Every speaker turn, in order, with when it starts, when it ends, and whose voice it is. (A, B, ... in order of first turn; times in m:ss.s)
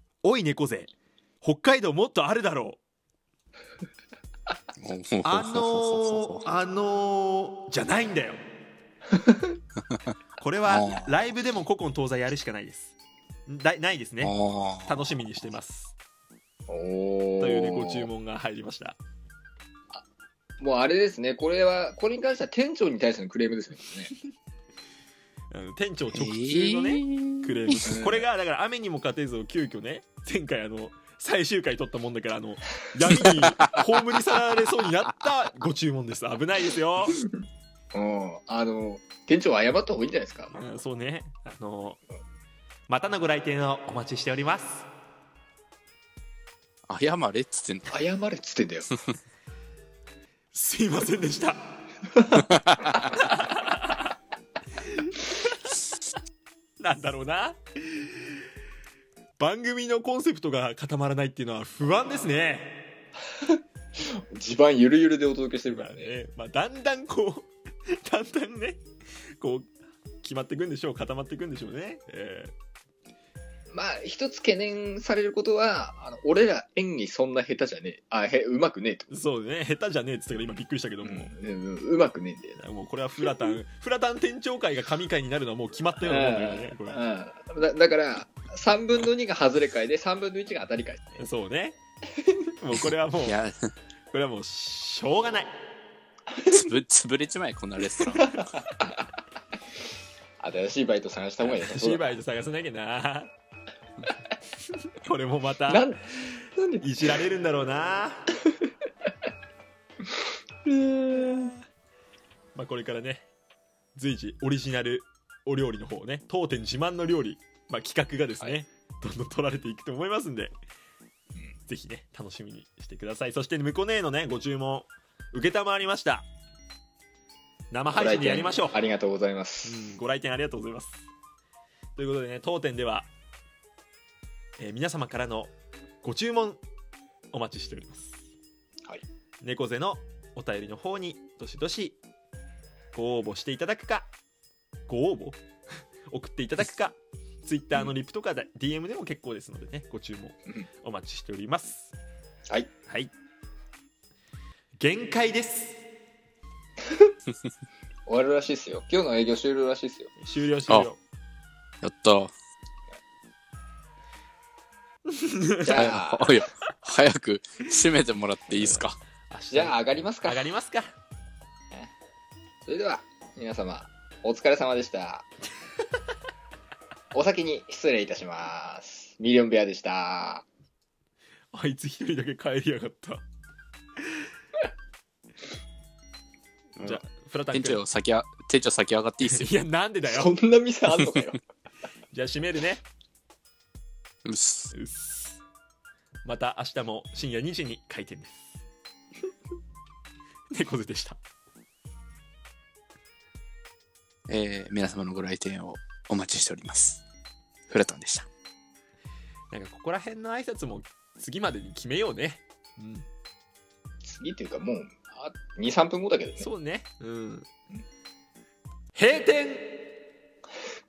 0:00.2-0:02.8 A
0:04.8-0:06.5 B
0:05.2-0:08.4 A
0:09.2-0:09.6 C
0:10.4-0:12.9 A
0:10.7-0:11.2 B
0:13.5-0:14.4 A
0:14.2-0:15.1 B
0:14.9-0:15.9 A
0:16.7-0:18.1 C
0:17.4-0:19.0 A
0:20.6-0:24.1 C
0:25.5-0:37.2 A
0:26.1-0:27.8 B
0:27.9-0:28.3 C
0:37.9-0:40.5 C
0:40.5-0:42.0 A
0:42.9-0:44.9 A
0:46.9-0:48.0 B
0:47.9-0:48.9 C
0:50.5-0:51.6 A
0:52.4-0:54.1 A
0:54.8-0:55.7 A
0:56.8-0:58.4 A
0:59.4-1:02.9 A
1:03.4-1:06.2 C
1:05.7-1:08.8 A
1:09.4-1:12.5 A
1:13.7-1:19.1 C
1:19.1-1:21.3 A
1:21.0-1:22.6 C
1:22.6-1:27.0 A
1:26.0-1:31.2 C
1:31.2-1:31.8 A
1:32.6-1:33.4 A
1:33.2-1:33.6 B
1:34.1-1:35.5 A
1:36.3-1:36.7 C
1:36.5-1:38.4 B
1:38.0-1:38.9 C
1:40.4-1:42.1 C
1:41.5-1:43.3 A
1:45.0-1:45.8 A
1:45.7-1:46.9 C
1:46.8-1:48.3 A
1:50.6-1:51.6 C
1:52.6-1:53.3 A
1:54.0-2:00.6 A
2:01.7-2:06.3 A
2:07.7-2:08.7 A
2:07.9-2:09.9 C
2:09.6-2:11.1 A
2:12.0-2:13.1 A
2:14.6-2:15.5 A
2:16.0-2:16.6 A
2:17.3-2:18.2 A
2:19.4-2:22.0 A
2:22.9-2:24.1 A
2:24.9-2:25.4 A
2:26.1-2:31.9 A
2:32.9-2:33.1 A
2:34.8-2:35.8 A
2:38.1-2:40.1 C
2:40.2-2:41.0 A
2:41.8-2:42.3 B
2:45.1-2:45.9 A
2:45.6-2:46.4 C
2:45.7-2:49.0 B
2:48.5-2:50.9 A
2:49.5-2:50.5 C
2:52.6-2:55.3 C
2:57.1-3:00.4 C
3:01.5-3:03.2 A
3:06.8-3:07.8 A
3:07.5-3:09.5 B
3:09.2-3:10.3 A
3:10.0-3:11.4 C
3:12.1-3:12.8 A
3:14.2-3:14.7 B
3:14.7-3:15.4 A
3:16.2-3:18.6 A
3:20.5-3:21.2 A
3:24.3-3:27.0 B
3:27.7-3:28.3 B
3:29.5-3:33.1 A
3:34.0-3:36.5 C
3:36.4-3:37.5 A
3:39.0-3:39.7 A